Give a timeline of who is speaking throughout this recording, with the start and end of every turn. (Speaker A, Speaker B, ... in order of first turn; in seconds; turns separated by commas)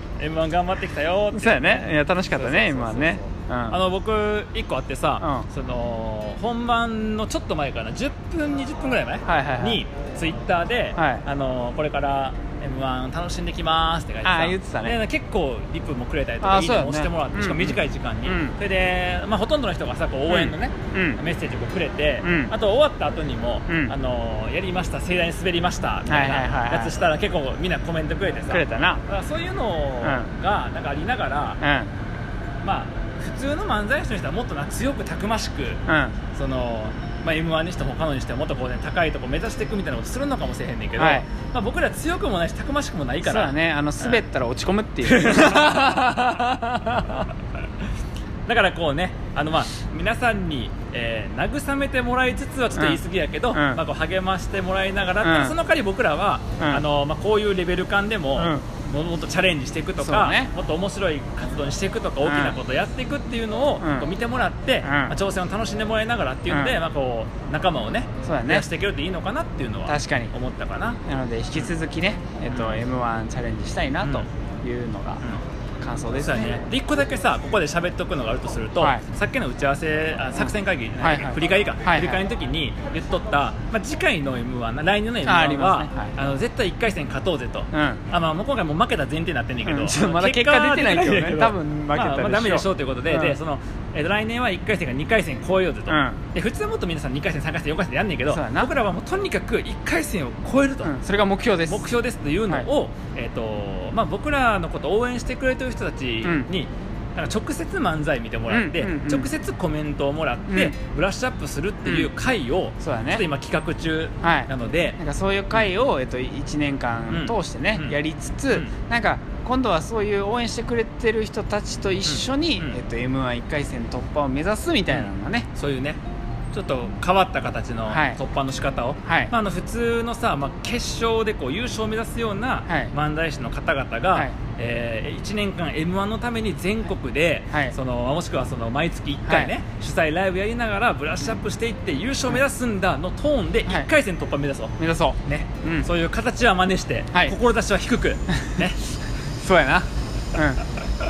Speaker A: 0.2-31.6, Speaker B: 1.3-3.8, Speaker B: 5.2-5.5, Speaker B: 9.2-9.8, Speaker B: 10.9-11.2, Speaker B: 14.2-15.0, Speaker B: 16.4-18.6, Speaker B: 20.3-21.2, Speaker B: 22.2-22.5, Speaker B: 23.7-23.9, Speaker B: 26.1-27.0, Speaker B: 28.5-29.0, Speaker B: 30.0-30.3, Speaker B: 31.6-31.9, Speaker A: 32.6-35.8, Speaker B: 35.9-36.2, Speaker A: 36.3-44.2, Speaker B: 41.0-41.2, Speaker B: 43.2-46.0, Speaker A: 45.0-47.4, Speaker A: 48.5-71.0, Speaker B: 52.7-53.0, Speaker B: 53.5-53.8, Speaker B: 55.2-55.5, Speaker B: 58.4-58.6, Speaker B: 60.0-60.5, Speaker B: 62.2-62.5, Speaker B: 63.8-64.1, Speaker B: 64.8-65.1, Speaker B: 66.5-66.8, Speaker B: 68.2-68.6, Speaker B: 69.9-70.3, Speaker B: 71.0-75.2, Speaker A: 72.5-72.8, Speaker B: 75.8-76.6, Speaker A: 76.2-101.0, Speaker B: 78.8-79.0, Speaker B: 81.0-82.2, Speaker B: 85.2-86.1, Speaker B: 87.7-88.0, Speaker B: 89.6-93.4, Speaker B: 95.9-96.2, Speaker B: 98.3-98.7, Speaker B: 100.8-101.9, Speaker A: 101.7-115.0, Speaker B: 106.2-106.5, Speaker B: 108.5-109.3, Speaker B: 110.5-110.7, Speaker B: 111.8-112.1, Speaker B: 112.8-113.2, Speaker B: 114.2-125.5, Speaker A: 117.1-118.0, Speaker A: 122.0-122.8, Speaker A: 124.9-126.0, Speaker A: 126.5-148.8, Speaker B: 127.9-128.2, Speaker B: 129.1-129.3, Speaker B: 132.7-132.9, Speaker B: 139.3-139.5, Speaker B: 144.8-145.9, Speaker B: 149.4-150.7